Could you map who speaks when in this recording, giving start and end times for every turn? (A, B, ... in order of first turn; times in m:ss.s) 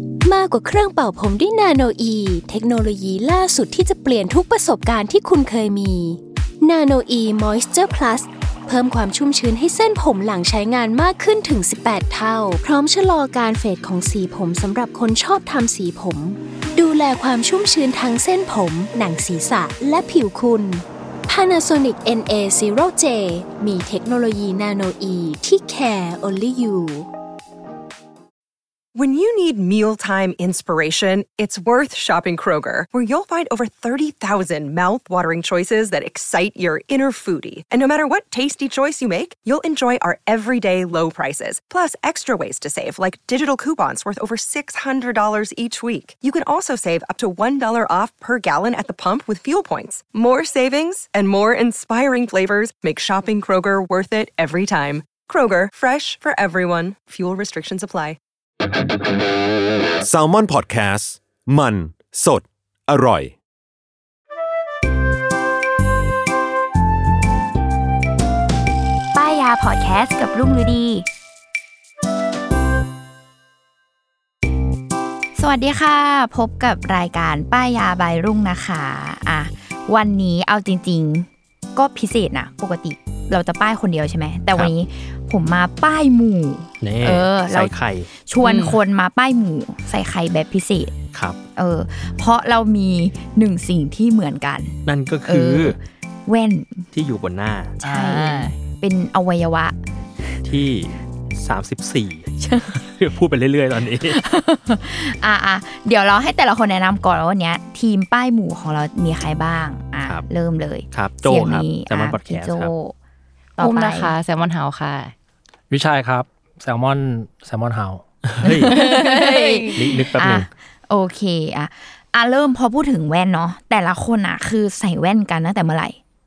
0:00.2-0:27.1 A
0:28.9-0:58.2 B
1:00.0-1:03.3 C
1:09.1-1:11.0 D
1:15.4-1:27.7 D
1:26.8-1:28.1 E
1:28.3-1:30.9 D
1:28.4-1:28.8 F
1:31.1-1:31.4 E
1:31.6-1:36.8 D
1:34.8-1:35.8 E
1:36.9-1:37.7 E
1:37.8-1:38.6 F
1:37.8-1:39.7 D
1:40.4-1:44.2 E
1:42.4-1:42.8 D
1:44.1-1:52.9 D
1:50.9-1:52.7 E
1:53.6-1:54.1 D
1:53.6-1:55.1 F
1:55.7-1:58.0 G
1:58.3-1:58.8 E
1:58.4-2:06.0 D
1:58.7-2:00.0 F
1:59.8-2:00.5 E